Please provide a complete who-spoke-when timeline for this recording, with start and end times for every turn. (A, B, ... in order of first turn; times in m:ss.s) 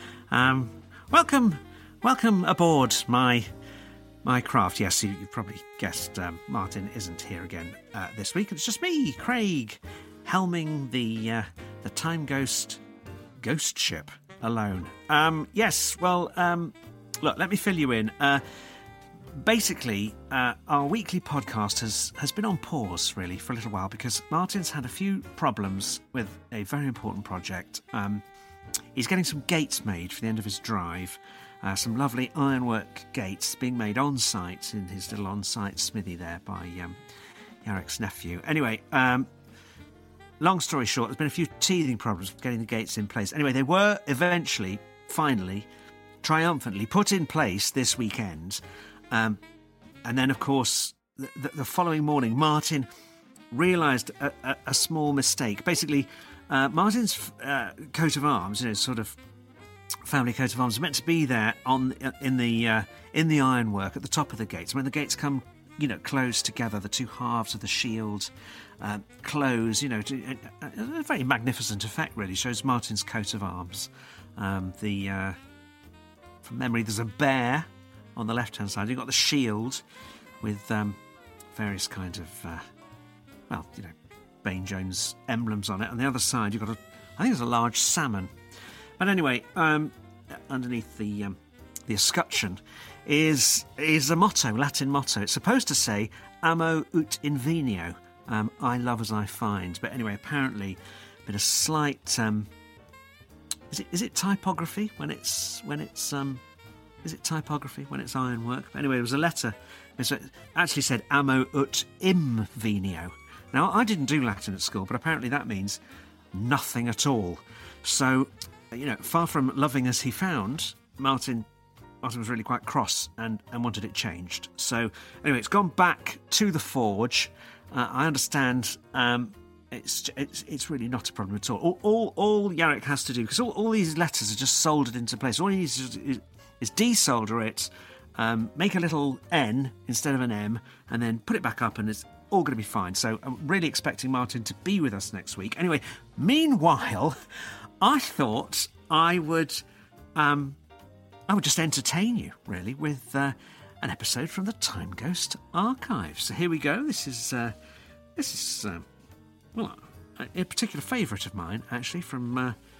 0:00.3-0:03.5 A
0:04.2-0:12.8 A
0:13.4-0:18.4 A
0:19.4-0:28.2 A
0:29.0-0:37.0 A
0:37.6-0:39.3 A
0:40.4-0:45.7 A
0:46.2-0:49.4 A
0:50.0-0:52.9 A
0:53.5-0:59.2 A
1:00.0-1:15.4 A
1:16.4-1:19.8 A
1:20.4-1:21.0 A
1:21.5-1:22.6 A
1:23.5-1:28.3 A
1:29.0-1:42.5 A
1:43.7-1:46.4 A
1:47.0-1:55.8 A
1:56.3-2:01.5 A
2:02.0-2:27.2 A
2:27.8-2:29.6 A
2:30.2-2:30.6 A
2:31.3-2:37.5 A
2:38.2-2:38.9 A
2:39.6-2:42.6 A